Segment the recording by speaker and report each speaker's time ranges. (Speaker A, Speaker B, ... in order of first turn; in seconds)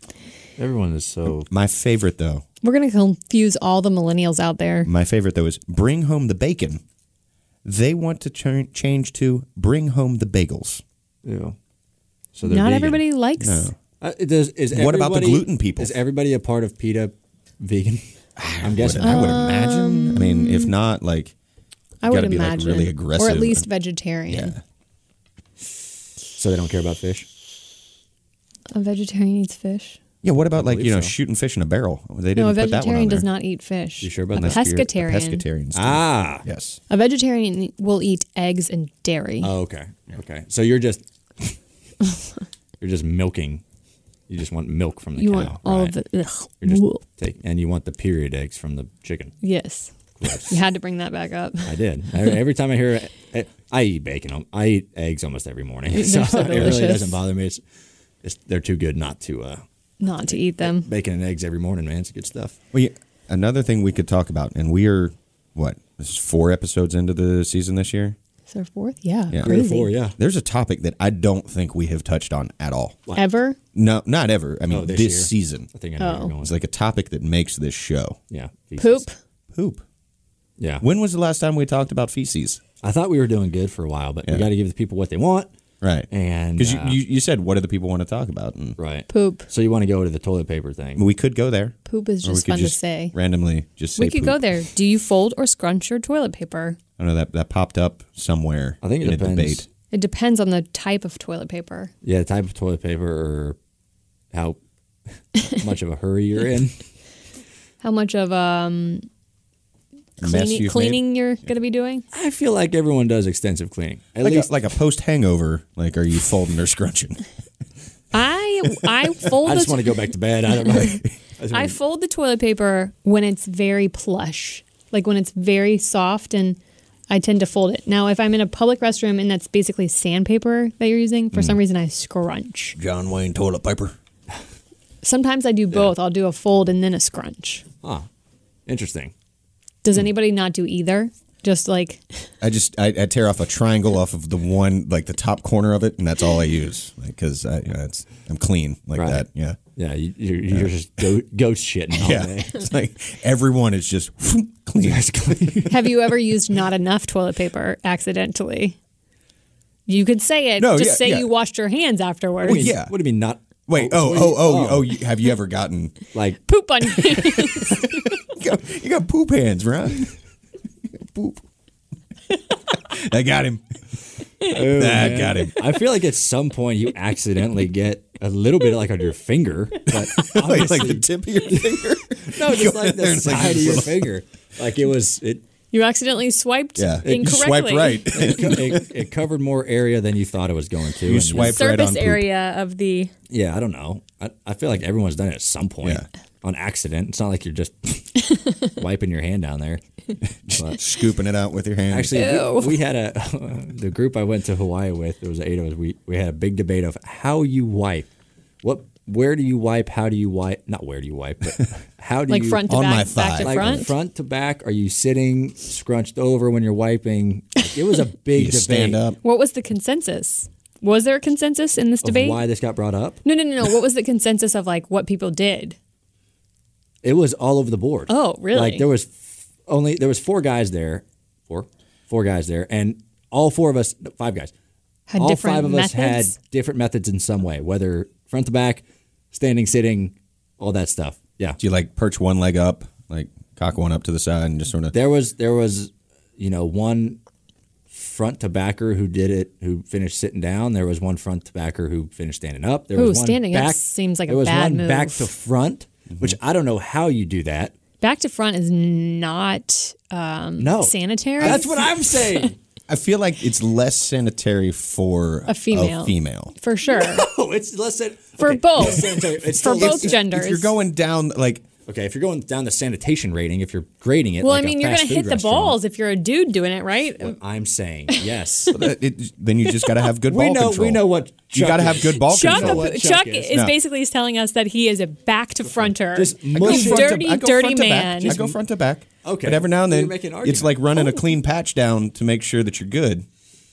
Speaker A: 0.6-1.5, 11.2-11.6, 12.3-13.0, 14.0-18.0, 18.6-19.3, 26.4-27.3, 30.5-31.1, 34.0-34.6, 35.7-36.5, 39.4-41.6, 42.8-43.6, 44.3-46.0, 46.6-49.4, 50.2-50.6, 51.7-57.6, 58.2-59.6, 60.3-62.6, 69.4-70.2, 74.7-76.5, 78.3-79.1, 80.6-80.8, 82.8-85.5, 86.1-87.0, 88.8-91.0, 98.8-99.7, 102.0-103.6, 104.3-104.6, 105.4-106.8, 112.1-114.5, 119.4-121.8, 138.7-139.1, 148.9-149.2, 149.8-152.6, 154.8-155.9, 162.4-165.0, 166.1-166.4, 174.4-185.4, 187.1-187.6, 188.1-191.6, 193.3-199.8, 200.5-200.8, 201.9-208.1, 208.6-212.6, 213.4-219.0, 222.0-223.2, 227.0-234.5, 235.2-241.6, 244.9-247.2, 247.9-257.7, 260.6-262.6, 266.9-270.2, 271.9-275.8, 277.2-278.8, 280.3-283.5, 285.7-287.2, 288.2-288.6, 289.2-290.8
Speaker B: 1.5-2.4, 4.8-6.8, 7.7-10.8, 13.4-13.8, 14.7-16.0, 18.4-21.3, 22.1-23.7, 24.3-24.6, 30.2-33.3, 34.4-36.8, 62.7-68.2, 69.3-69.6, 70.2-73.0, 73.7-75.7, 76.4-78.2, 79.5-79.8, 80.8-82.6, 85.8-88.8, 91.0-94.4, 97.0-99.7, 110.2-111.0, 114.2-117.2, 132.8-134.0, 142.4-149.6, 152.0-155.7, 160.6-161.3, 162.5-162.9, 163.7-166.0, 167.1-170.1, 171.0-171.4, 172.7-173.8, 174.5-175.7, 179.9-184.1, 186.8-188.9, 191.0-192.2, 195.8-196.1, 200.2-202.2, 212.7-213.9, 218.3-219.2, 241.6-244.9, 256.1-256.4, 261.4-261.7, 262.9-266.5, 269.6-271.7, 278.7-282.9, 286.5-293.3
Speaker C: 2.6-4.9, 12.5-13.7, 19.0-20.7, 22.0-24.6, 28.7-30.0, 32.4-35.4, 36.9-39.5, 45.2-47.0, 49.4-49.9, 50.5-51.8, 55.9-57.2, 60.0-60.9, 68.5-69.9, 73.1-73.6, 76.0-76.3, 78.8-79.2, 89.1-89.5, 91.9-93.2, 94.0-96.8, 99.9-101.9, 107.8-109.1, 110.2-112.0, 118.1-119.9, 120.6-121.0, 121.5-126.6, 127.1-132.8, 135.0-137.7, 139.8-142.3, 155.7-158.8, 159.9-162.7, 166.5-168.1, 185.7-188.1, 191.3-193.1, 198.3-198.7, 202.1-202.8, 212.3-213.9, 219.2-222.4, 223.2-225.8, 228.1-228.9, 235.1-236.3, 252.9-255.3, 258.0-262.5, 265.5-267.3, 268.4-270.7, 274.4-277.4, 279.8-280.1, 282.3-288.3, 290.9-291.2